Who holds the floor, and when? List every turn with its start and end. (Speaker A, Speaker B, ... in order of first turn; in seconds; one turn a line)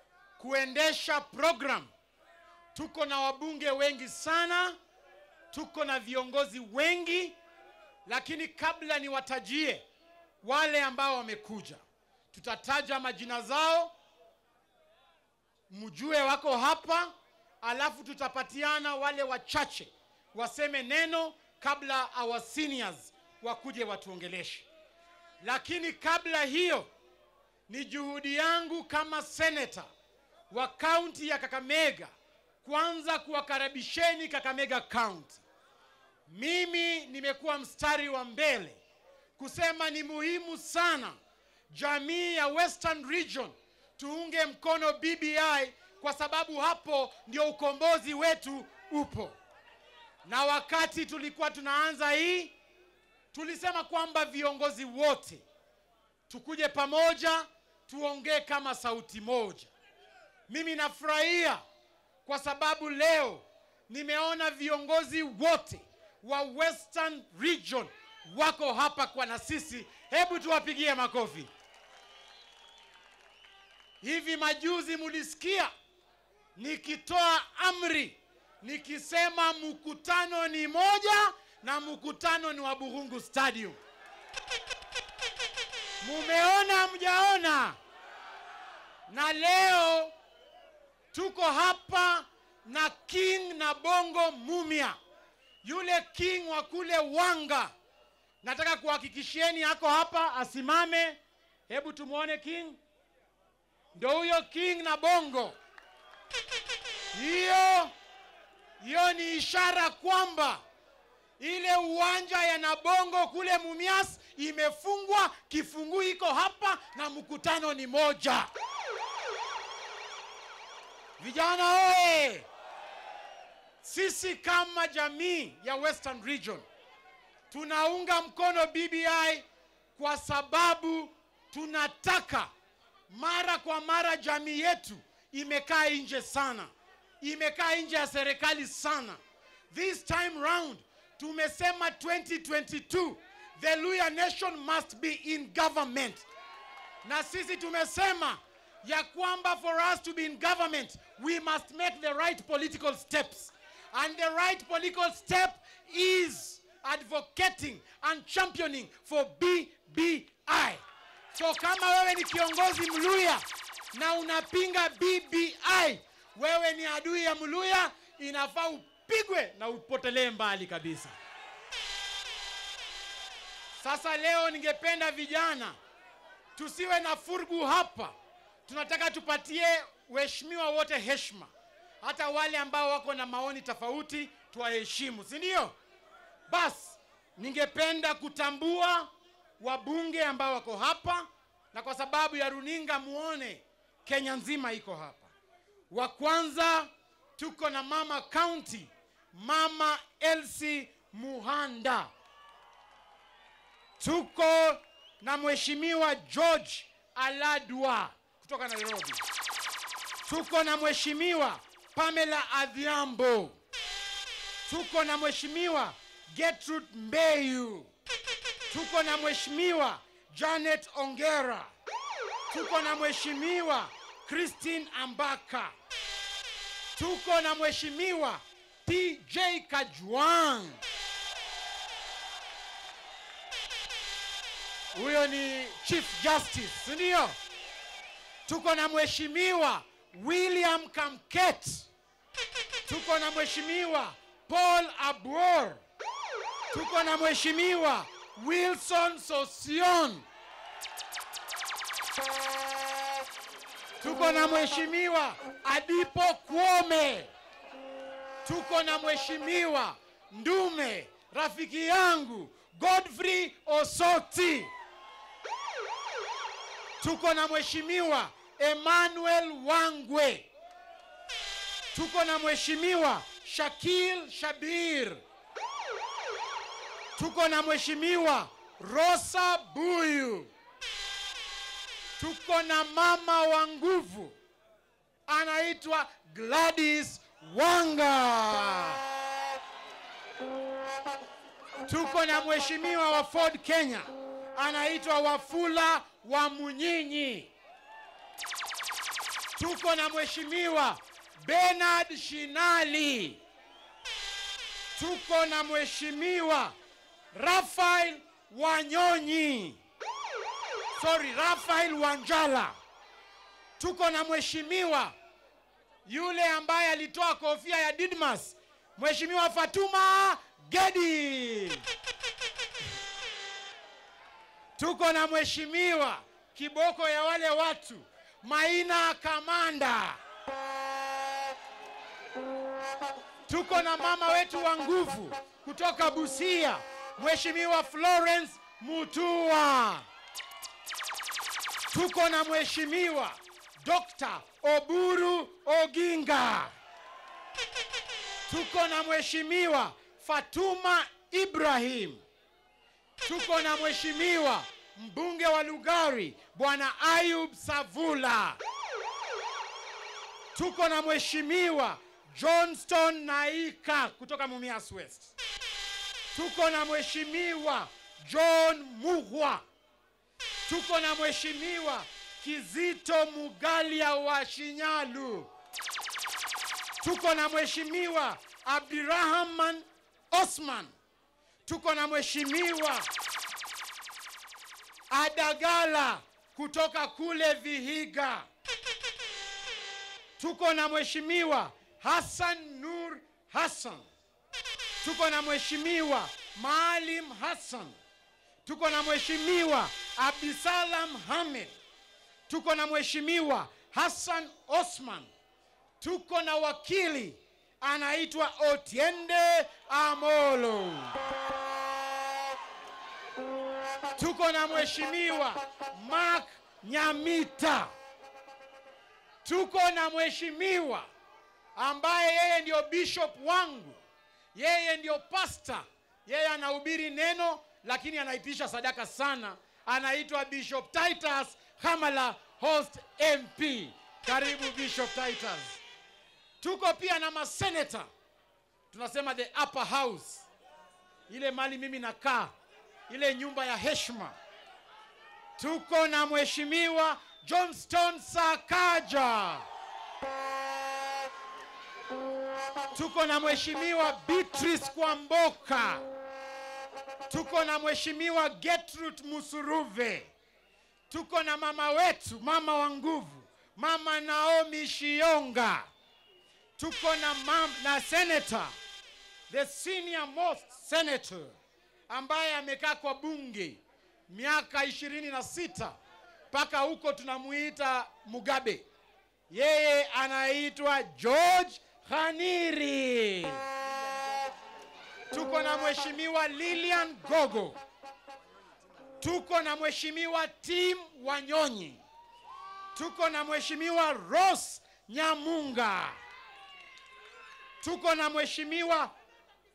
Speaker A: 0.4-1.9
Speaker A: 2.7-4.8
Speaker A: 5.5-7.4
Speaker A: 8.1-9.8
Speaker A: 10.4-13.9
Speaker A: 15.7-24.7
Speaker A: 25.4-26.9
Speaker A: 27.7-29.9
Speaker A: 30.5-35.4
Speaker A: 36.3-38.8
Speaker A: 39.4-41.2
Speaker A: 41.7-49.4
Speaker A: 50.2-52.5
Speaker A: 53.3-55.5
Speaker A: 56.3-59.7
Speaker A: 60.5-61.6
Speaker A: 62.3-71.5
Speaker A: 74.0-75.7
Speaker A: 76.6-83.8
Speaker A: 86.0-87.8
Speaker A: 89.1-90.1
Speaker A: 91.1-95.0
Speaker A: 95.6-97.7
Speaker A: 98.4-102.8
Speaker A: 104.0-105.6
Speaker A: 107.1-107.9
Speaker A: 108.8-110.6
Speaker A: 111.4-118.5
Speaker A: 121.2-122.5
Speaker A: 123.8-126.7
Speaker A: 127.5-132.5
Speaker A: 133.1-139.2
Speaker A: 139.7-146.3
Speaker A: 147.0-160.8
Speaker A: 161.3-171.2
Speaker A: 173.8-175.8
Speaker A: 176.6-178.1
Speaker A: 178.7-185.8
Speaker A: 186.5-195.3
Speaker A: 195.9-202.1
Speaker A: 204.0-209.2
Speaker A: 210.3-213.6
Speaker A: 214.7-217.9
Speaker A: 218.7-221.7
Speaker A: 222.5-225.7
Speaker A: 227.0-230.8
Speaker A: 234.9-237.4
Speaker A: 238.5-241.9
Speaker A: 242.9-245.8
Speaker A: 246.7-250.3
Speaker A: 254.0-257.3
Speaker A: 258.4-264.7
Speaker A: 267.0-270.5
Speaker A: 271.9-275.2
Speaker A: 277.2-280.5
Speaker A: 282.2-284.4
Speaker A: 285.3-289.0
Speaker A: 291.9-297.5
Speaker A: 299.6-303.4
Speaker A: 305.0-306.7
Speaker A: 307.3-309.8
Speaker A: 310.9-312.8
Speaker A: 313.8-315.1
Speaker A: 316.1-321.8
Speaker A: 324.8-330.2
Speaker A: 333.5-340.1
Speaker A: 341.9-346.7
Speaker A: 348.5-352.2
Speaker A: 353.2-358.6
Speaker A: 360.5-365.4
Speaker A: 366.3-369.6
Speaker A: 370.7-375.5
Speaker A: 377.0-380.9
Speaker A: 381.7-383.1
Speaker A: 385.1-388.5
Speaker A: 390.4-394.1
Speaker A: 395.0-398.0
Speaker A: 398.6-401.8
Speaker A: 402.5-405.3
Speaker A: 406.0-411.2
Speaker A: 414.1-417.9
Speaker A: 419.4-421.1
Speaker A: 421.8-424.0
Speaker A: 424.6-435.8
Speaker A: 436.6-438.1
Speaker A: 438.9-440.5
Speaker A: 441.3-442.5
Speaker A: 443.1-444.4
Speaker A: 445.6-449.7
Speaker A: 452.9-456.1
Speaker A: 457.3-460.3
Speaker A: 461.1-465.9
Speaker A: 466.8-468.7
Speaker A: 469.5-471.6
Speaker A: 472.1-476.0
Speaker A: 476.5-478.9
Speaker A: 479.5-483.6
Speaker A: 485.3-487.8
Speaker A: 489.2-492.0
Speaker A: 492.9-496.2
Speaker A: 497.8-499.1